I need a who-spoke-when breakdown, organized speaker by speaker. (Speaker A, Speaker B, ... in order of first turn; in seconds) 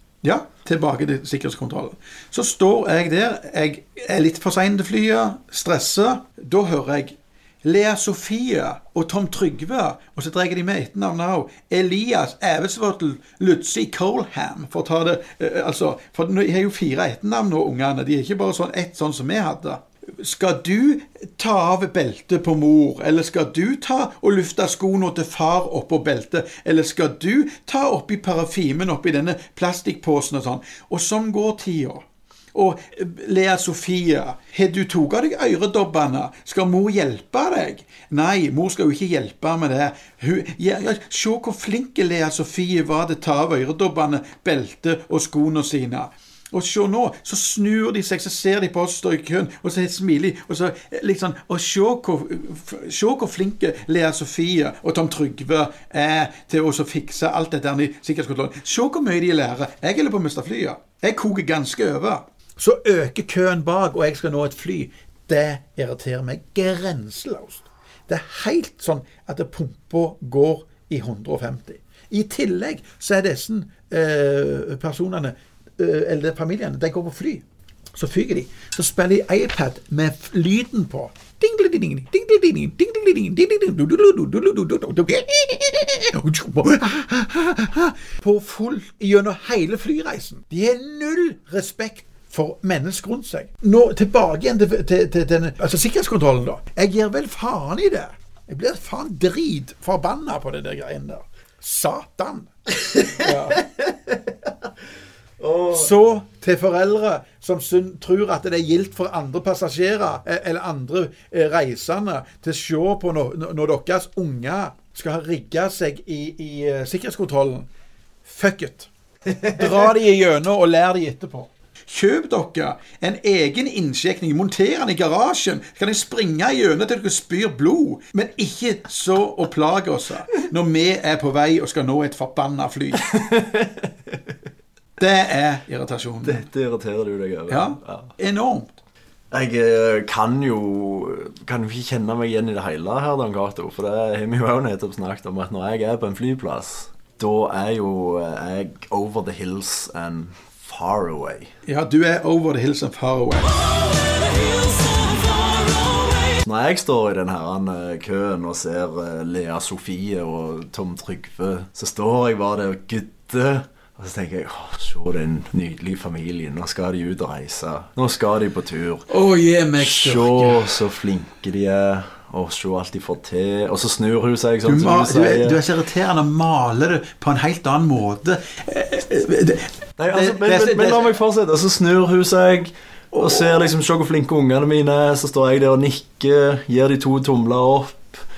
Speaker A: 0.2-102.5, 103.0-103.6, 105.7-117.7, 118.2-118.9, 119.5-133.1, 135.0-136.4, 137.5-138.8, 151.7-153.6, 169.1-170.8, 174.7-181.1, 183.1-183.6
Speaker B: 102.8-104.7, 105.4-106.0, 119.3-119.6, 133.0-134.3, 136.2-138.1, 139.3-151.5, 156.3-169.1, 169.8-175.6, 180.0-188.2